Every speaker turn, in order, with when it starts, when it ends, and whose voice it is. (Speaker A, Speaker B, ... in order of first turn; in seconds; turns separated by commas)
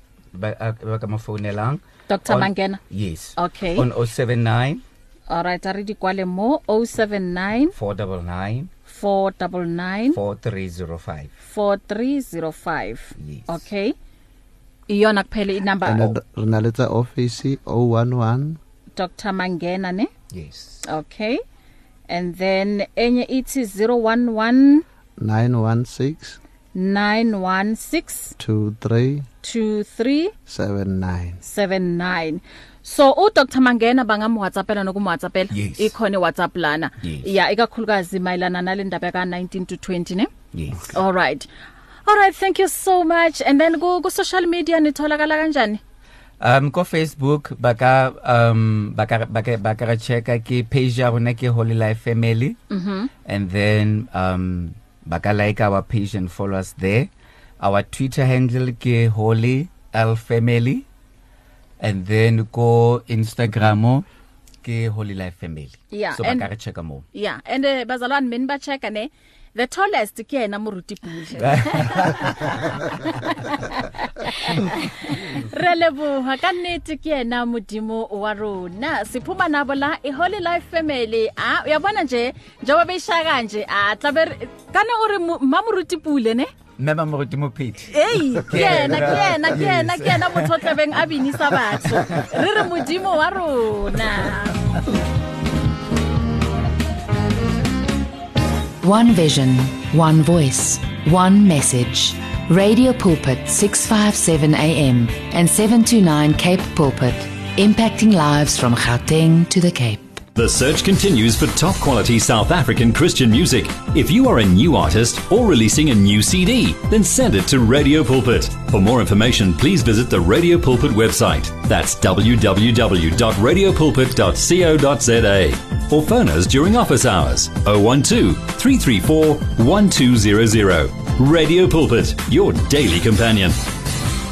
Speaker A: 0.3-4.8, Speaker B: 2.1-2.8, Speaker B: 3.4-3.9, Speaker B: 5.3-7.7, Speaker A: 7.7-8.7, Speaker B: 8.9-10.2, Speaker A: 10.1-11.3, Speaker B: 11.4-13.9, Speaker A: 13.2-13.6, Speaker B: 14.9-16.1, Speaker C: 15.8-18.6, Speaker B: 19.0-20.1, Speaker A: 20.3-20.8, Speaker B: 20.9-21.4, Speaker B: 22.1-24.9, Speaker C: 25.2-26.4, Speaker B: 26.8-28.4, Speaker C: 28.4-29.3, Speaker B: 29.4-30.3, Speaker C: 30.5-31.4, Speaker B: 31.4-40.3, Speaker A: 35.5-35.9, Speaker A: 37.0-37.3, Speaker A: 40.5-41.0, Speaker B: 40.9-41.5, Speaker B: 42.1-45.8, Speaker A: 46.4-52.6, Speaker B: 52.7-53.1, Speaker A: 53.2-60.9, Speaker A: 61.8-64.0, Speaker A: 64.6-67.0, Speaker B: 65.9-66.5, Speaker B: 67.1-72.2, Speaker A: 71.4-72.6, Speaker B: 73.1-86.5, Speaker A: 86.8-90.7, Speaker B: 87.9-94.6, Speaker A: 91.8-92.3, Speaker D: 98.8-110.2, Speaker E: 110.3-133.6